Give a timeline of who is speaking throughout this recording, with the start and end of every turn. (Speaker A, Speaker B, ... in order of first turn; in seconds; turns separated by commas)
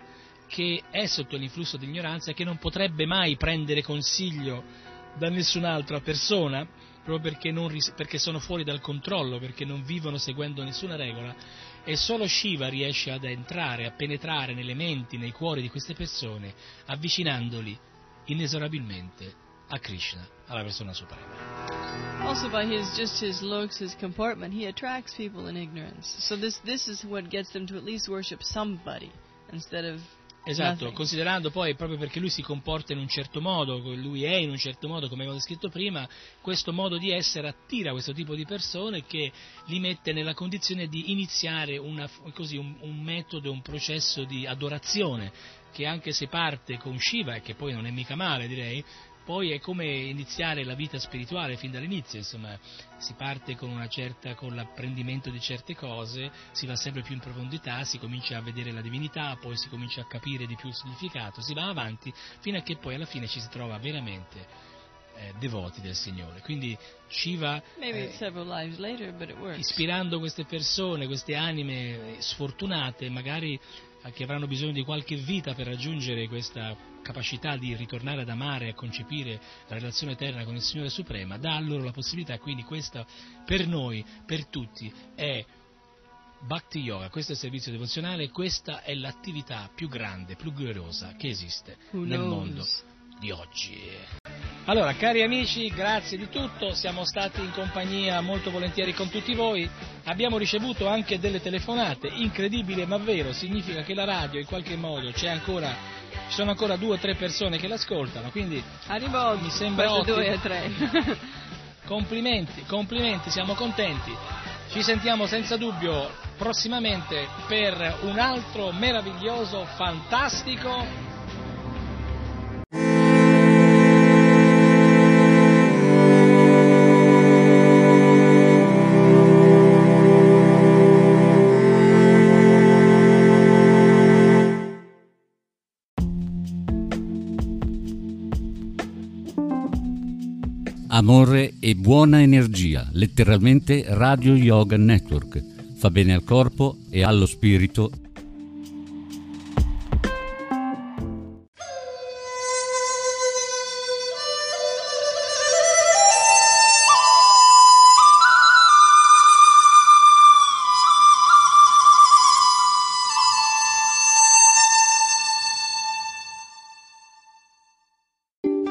Speaker A: 0.5-21.5, Speaker B: 22.2-31.0, Speaker A: 30.5-64.5, Speaker A: 65.1-68.2, Speaker B: 67.8-69.8, Speaker A: 69.6-85.5, Speaker A: 86.4-94.1, Speaker B: 91.9-92.8, Speaker A: 94.7-110.4, Speaker B: 108.9-111.3, Speaker A: 111.8-120.9, Speaker C: 140.9-147.9